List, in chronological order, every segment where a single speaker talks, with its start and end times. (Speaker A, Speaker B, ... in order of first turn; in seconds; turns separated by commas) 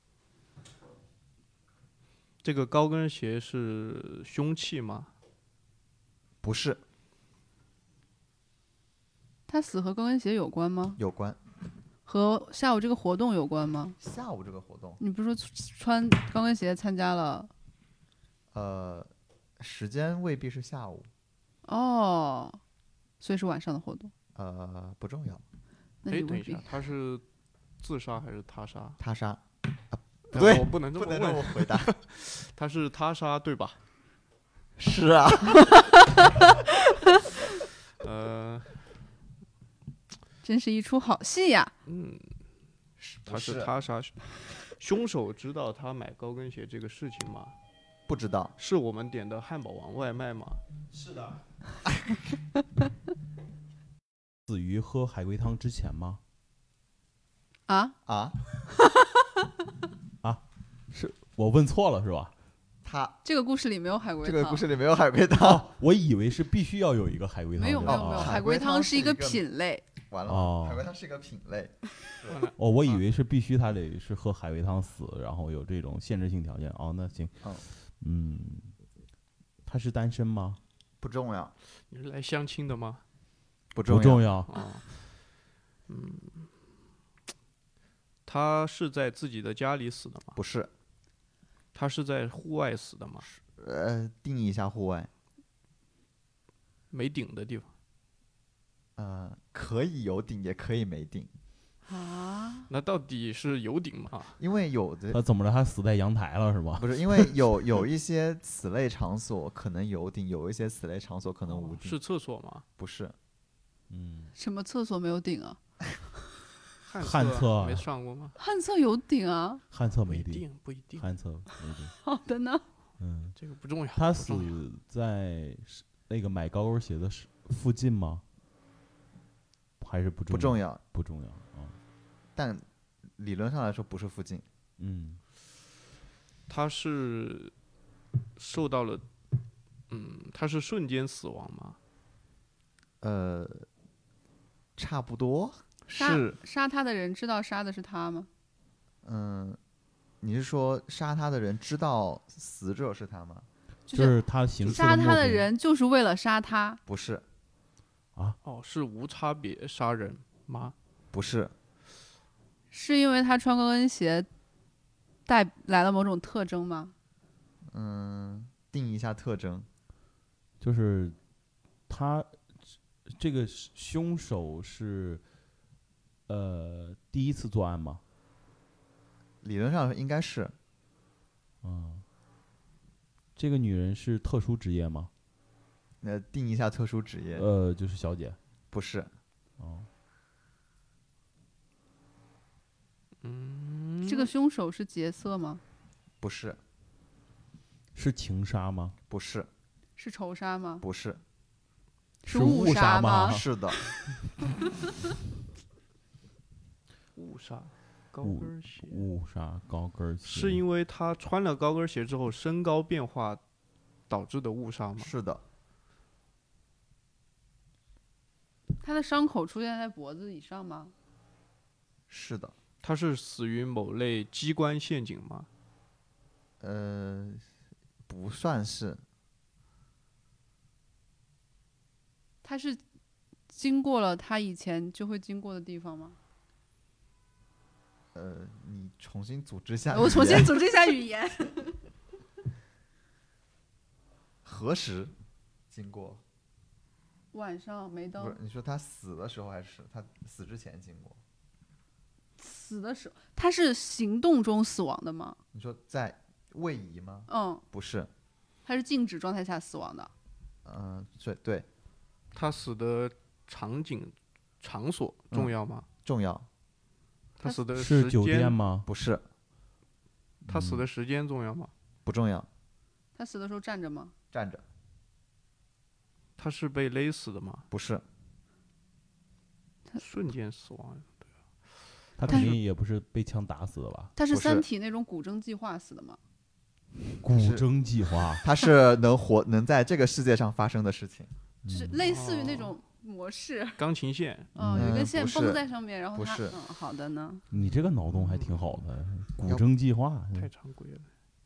Speaker A: 2.4-5.1, Speaker B: 6.4-6.8, Speaker C: 9.5-11.0, Speaker B: 11.0-11.4, Speaker C: 12.1-14.0, Speaker B: 14.0-15.0, Speaker C: 15.0-17.5, Speaker B: 18.5-21.1, Speaker C: 21.7-22.6, Speaker C: 23.2-24.1, Speaker B: 24.4-25.4, Speaker C: 26.0-26.6, Speaker A: 26.1-27.2, Speaker A: 27.8-29.0, Speaker B: 29.0-31.9, Speaker A: 30.3-33.8, Speaker B: 34.8-35.9, Speaker A: 38.0-38.8, Speaker C: 40.4-41.7, Speaker A: 41.9-42.3, Speaker B: 43.0-43.7, Speaker A: 43.2-47.5, Speaker B: 48.1-48.5, Speaker A: 48.6-50.6, Speaker D: 54.5-56.2, Speaker C: 57.7-58.0, Speaker B: 58.1-58.4, Speaker D: 60.2-62.3, Speaker B: 62.8-63.2, Speaker C: 63.2-64.6, Speaker B: 64.2-65.7, Speaker D: 65.3-68.4, Speaker C: 67.6-69.8, Speaker B: 67.9-69.5, Speaker B: 70.1-72.4, Speaker D: 70.3-70.9, Speaker A: 72.3-73.0, Speaker D: 72.6-78.7, Speaker D: 79.7-80.6, Speaker B: 81.0-81.5, Speaker A: 81.9-83.0, Speaker B: 83.7-84.3, Speaker D: 83.9-84.5, Speaker A: 84.5-84.9, Speaker A: 85.9-86.5, Speaker A: 88.3-90.4, Speaker B: 90.4-90.7, Speaker A: 91.7-93.3, Speaker B: 93.3-95.1, Speaker A: 96.9-97.7, Speaker B: 99.0-101.3, Speaker C: 101.9-102.7, Speaker A: 102.7-104.4, Speaker B: 104.4-105.2, Speaker D: 105.1-107.3, Speaker B: 106.8-112.0, Speaker A: 111.5-112.7, Speaker B: 112.8-113.2, Speaker D: 113.9-114.3, Speaker C: 114.3-115.6, Speaker A: 116.9-118.4, Speaker D: 117.0-117.9, Speaker C: 118.4-119.6, Speaker D: 119.7-120.4, Speaker A: 120.1-121.1, Speaker D: 121.0-121.9, Speaker C: 121.6-122.7, Speaker D: 123.0-123.4, Speaker A: 123.4-124.5, Speaker D: 124.0-128.2, Speaker D: 129.8-131.8, Speaker B: 130.3-130.8, Speaker B: 132.4-132.7, Speaker B: 133.2-134.5, Speaker D: 134.8-135.2, Speaker A: 136.5-137.5, Speaker A: 138.4-139.1, Speaker A: 139.9-141.8, Speaker B: 143.0-143.7, Speaker B: 144.8-146.4, Speaker C: 145.9-148.3, Speaker B: 149.0-149.6, Speaker B: 150.2-153.5, Speaker C: 153.9-156.8, Speaker D: 153.9-155.5, Speaker B: 156.9-157.2, Speaker A: 158.4-160.8, Speaker B: 161.1-161.5, Speaker C: 162.7-164.3, Speaker C: 165.3-166.9, Speaker B: 167.7-169.7, Speaker D: 170.6-171.2, Speaker D: 171.9-172.4, Speaker D: 173.1-175.2, Speaker D: 176.3-178.0, Speaker B: 179.4-180.6, Speaker D: 181.6-182.0, Speaker D: 183.4-185.1, Speaker B: 186.0-187.5, Speaker D: 187.3-188.4, Speaker B: 188.7-189.1, Speaker D: 189.6-189.9, Speaker A: 193.2-194.3, Speaker C: 194.1-195.6, Speaker B: 196.2-196.6, Speaker D: 197.9-199.0, Speaker B: 199.1-199.5, Speaker C: 200.0-200.8, Speaker B: 200.8-201.2, Speaker C: 202.2-203.4, Speaker D: 202.3-203.5, Speaker B: 203.3-203.9, Speaker A: 207.2-209.1, Speaker D: 208.2-210.6, Speaker A: 210.2-213.4, Speaker A: 214.1-215.1, Speaker B: 215.0-215.4, Speaker C: 218.8-220.9, Speaker B: 222.1-222.6, Speaker A: 222.8-225.5, Speaker B: 226.6-227.5, Speaker B: 228.1-229.0, Speaker C: 232.4-232.8, Speaker C: 233.5-236.2, Speaker B: 238.1-240.6, Speaker C: 239.9-241.8, Speaker B: 244.4-245.1, Speaker B: 245.7-246.2, Speaker C: 247.3-248.4, Speaker B: 248.2-251.2, Speaker C: 252.4-255.4, Speaker B: 255.5-258.1, Speaker C: 257.3-257.6, Speaker C: 258.7-260.1, Speaker B: 260.6-261.7, Speaker A: 262.3-265.9, Speaker B: 266.1-266.5, Speaker A: 267.4-268.6, Speaker D: 267.7-268.9, Speaker B: 268.9-269.2, Speaker D: 270.5-270.8, Speaker A: 270.5-271.7, Speaker B: 272.1-272.5, Speaker C: 273.2-274.1, Speaker B: 274.3-274.6, Speaker A: 276.4-277.7, Speaker B: 277.7-278.0, Speaker A: 280.0-281.3, Speaker D: 282.2-284.1, Speaker A: 282.2-282.6, Speaker C: 284.2-286.2, Speaker B: 284.3-284.7, Speaker D: 287.2-288.5, Speaker B: 287.3-287.7, Speaker B: 288.4-291.3, Speaker D: 291.6-292.0, Speaker C: 291.7-293.8, Speaker A: 292.0-292.8, Speaker A: 293.8-294.5, Speaker C: 294.6-297.4, Speaker D: 294.6-294.9, Speaker B: 294.7-296.6, Speaker D: 297.5-300.5, Speaker A: 297.6-298.9, Speaker A: 300.4-301.1